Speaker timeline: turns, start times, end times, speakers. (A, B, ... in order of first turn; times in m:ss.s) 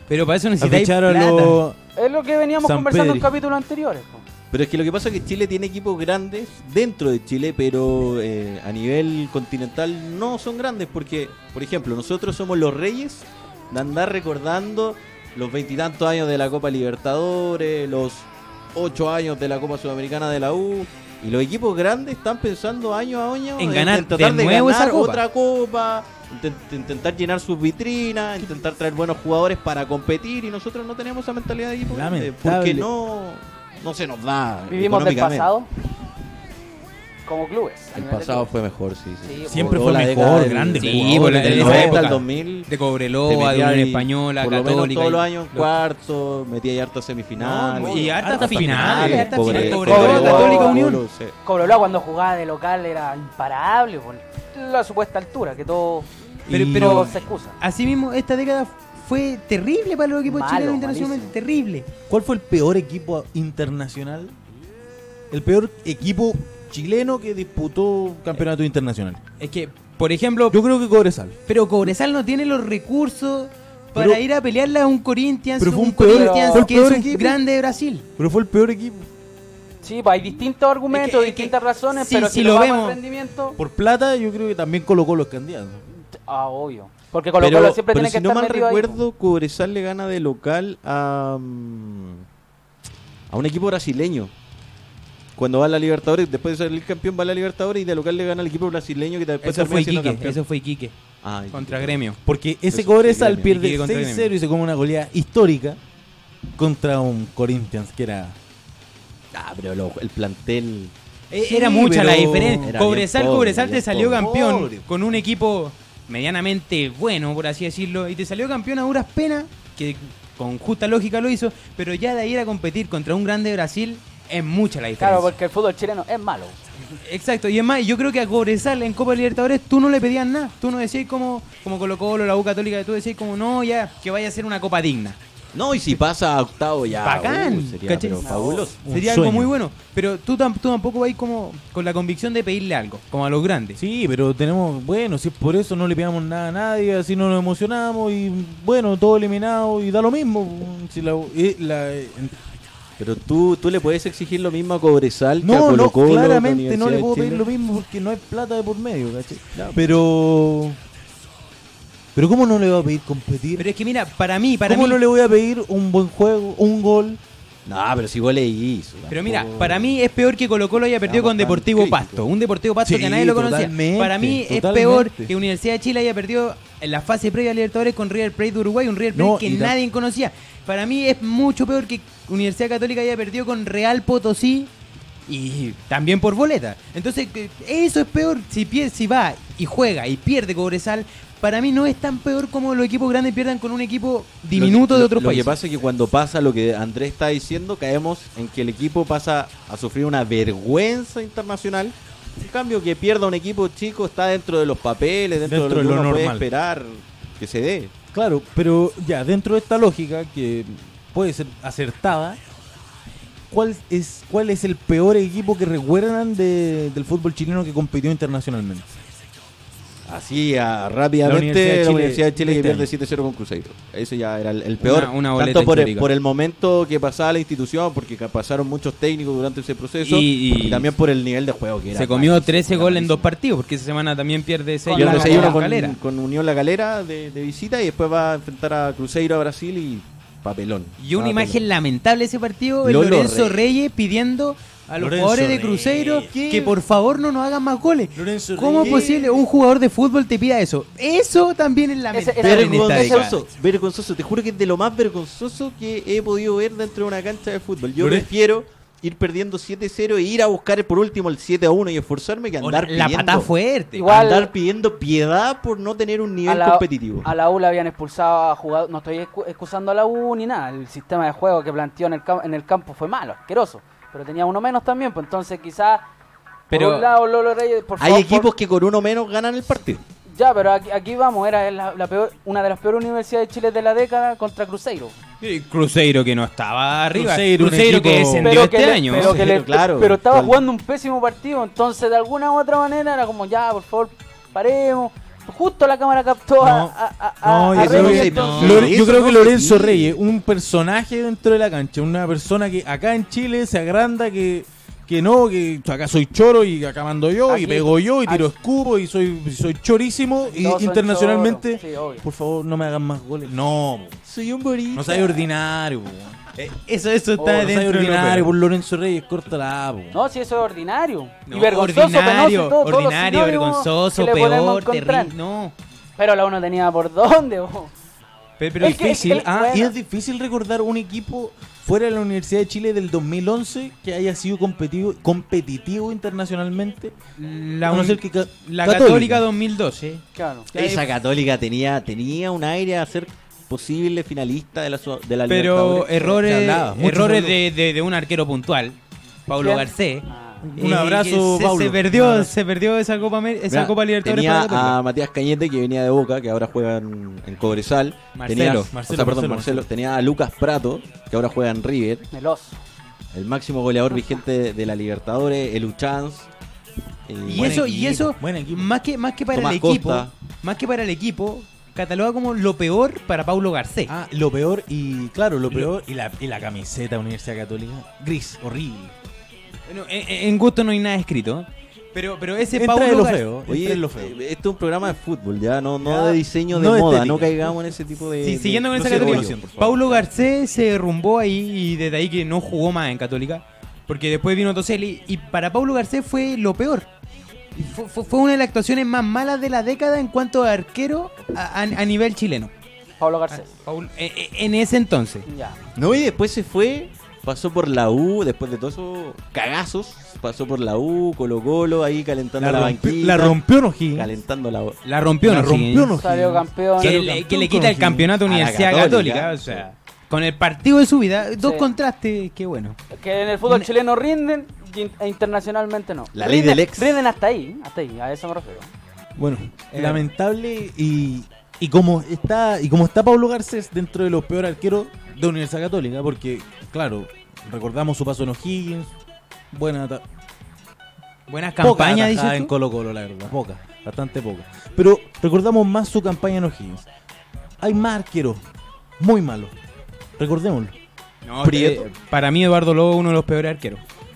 0:00.1-0:01.6 A
0:00.6-0:01.8 B
0:02.0-0:04.2 C
0:02.6-0:03.3 B
0:04.5-0:35.5 D
0:23.6-0:25.2 A
0:31.9-0:32.9 B
0:34.7-0:35.7 C
0:37.3-0:38.5 C
0:37.9-0:42.7 D
0:39.2-0:40.0 C
0:39.5-0:42.1 B
0:40.8-0:45.7 A
0:43.2-0:51.4 D
0:47.4-0:50.5 B
0:47.8-0:51.0 A
0:49.5-0:50.8 C
0:51.4-0:56.1 C
0:56.5-0:57.2 B
0:56.5-1:01.9 A
0:56.6-0:57.6 C
1:00.2-1:01.3 C
1:02.1-1:04.4 B
1:05.3-1:09.2 B
1:09.4-1:10.6 A
1:10.5-1:11.4 B
1:11.5-1:18.0 A
1:14.0-1:14.2 B
1:15.6-1:17.4 B
1:16.1-1:16.7 C
1:18.2-1:19.1 B
1:19.8-1:23.6 C
1:20.9-1:23.0 A
1:23.6-1:25.8 B
1:26.1-1:29.0 C
1:27.4-1:32.2 D
1:33.3-1:34.3 D
1:35.4-1:40.4 D
1:39.4-1:40.9 A
1:41.2-1:42.0 D
1:41.5-1:42.2 A
1:42.2-1:45.8 B
1:42.7-1:43.5 D
1:43.4-1:44.3 A
1:46.6-1:48.4 B
1:49.3-1:50.9 D
1:51.3-1:52.7 B
1:51.3-2:05.3 A
1:52.6-1:54.3 D
1:54.2-1:54.9 B
2:05.0-2:06.9 C
2:07.0-2:15.2 A
2:15.5-2:18.8 D
2:16.9-2:23.8 A
2:18.2-2:18.7 C
2:18.8-2:19.5 B
2:23.8-2:32.4 B
2:33.0-2:37.5 D
2:35.4-2:40.8 B
2:39.6-2:39.8 D
2:42.2-2:43.7 B
2:43.6-2:45.0 A
2:44.7-2:47.2 B
2:47.7-2:50.0 D
2:49.1-3:04.7 A
2:51.0-2:52.2 D
2:52.8-2:55.3 B
2:59.2-2:59.8 B
3:05.3-3:15.6 A
3:14.5-3:27.9 D
3:25.4-3:26.5 B
3:28.1-3:32.4 B
3:33.5-3:39.0 B
3:40.1-3:53.3 D
3:41.2-3:42.9 B
3:44.8-3:46.1 A
3:50.0-3:50.9 A
3:51.9-3:56.0 A
3:54.9-3:55.6 C
3:54.9-4:01.7 D
4:01.0-4:13.4 A
4:02.8-4:03.7 D
4:05.0-4:06.3 B
4:06.3-4:06.8 D
4:08.2-4:09.3 B
4:08.8-4:09.4 D
4:12.1-4:13.3 C
4:12.4-4:27.3 D
4:18.0-4:18.3 B
4:22.6-4:24.1 A
4:24.0-4:24.5 C
4:26.5-4:36.1 C
4:36.7-4:38.5 C
4:36.7-4:37.1 A
4:38.0-4:40.0 D
4:40.3-4:45.2 C
4:45.4-4:49.4 A
4:47.1-4:48.7 B
4:48.4-4:58.9 C
4:49.1-4:50.6 D
4:56.6-5:14.2 B
4:57.7-5:00.2 D
4:58.1-4:58.9 A
5:07.5-5:08.5 C
5:10.5-5:12.2 C
5:14.2-5:15.4 D
5:14.9-5:16.4 B
5:16.6-5:18.5 A
5:17.4-5:17.7 C
5:17.4-5:20.2 B
5:20.1-5:25.3 C
5:21.5-5:25.8 A
5:26.2-5:27.9 C
5:28.6-5:29.7 A
5:28.8-5:29.9 C
5:28.8-5:37.2 B
5:37.4-5:40.2 A
5:37.9-5:39.4 B
5:40.4-5:40.7 C
5:40.7-5:41.1 A
5:40.7-5:46.5 D
5:45.5-5:49.0 A
5:46.4-5:47.6 B
5:49.5-5:55.0 A
5:49.6-5:50.7 C
5:50.6-5:52.5 B
5:53.7-6:02.3 D
5:58.4-5:58.9 A
5:58.9-5:59.9 B
6:02.3-6:02.8 C
6:03.3-6:06.5 D
6:07.3-6:08.1 D
6:07.5-6:14.1 A
6:07.5-6:08.9 B
6:09.5-6:10.3 D
6:14.1-6:19.1 B
6:19.9-6:23.4 A
6:22.8-6:24.4 B
6:23.7-6:30.3 D
6:26.0-6:27.7 B
6:28.4-6:37.1 A
6:28.9-6:29.9 B
6:37.8-6:42.7 A
6:43.2-6:43.7 C
6:43.5-6:45.5 A
6:45.5-6:45.8 C
6:46.0-6:53.6 D
6:52.6-6:54.3 B
6:54.1-6:55.0 D
6:55.0-6:56.2 A
6:55.4-6:58.4 B
6:56.2-6:57.2 C
6:57.0-7:03.0 A
6:58.4-6:59.9 D
7:01.5-7:01.9 C
7:03.1-7:08.9 C
7:06.3-7:07.2 D
7:09.4-7:19.2 B
7:09.9-7:10.2 A
7:19.7-7:20.2 B
7:21.5-7:22.7 A
7:21.8-7:27.1 B
7:27.8-7:28.6 B
7:29.2-7:29.8 B
7:30.4-7:31.0 B
7:31.5-7:34.0 A
7:31.6-7:32.1 D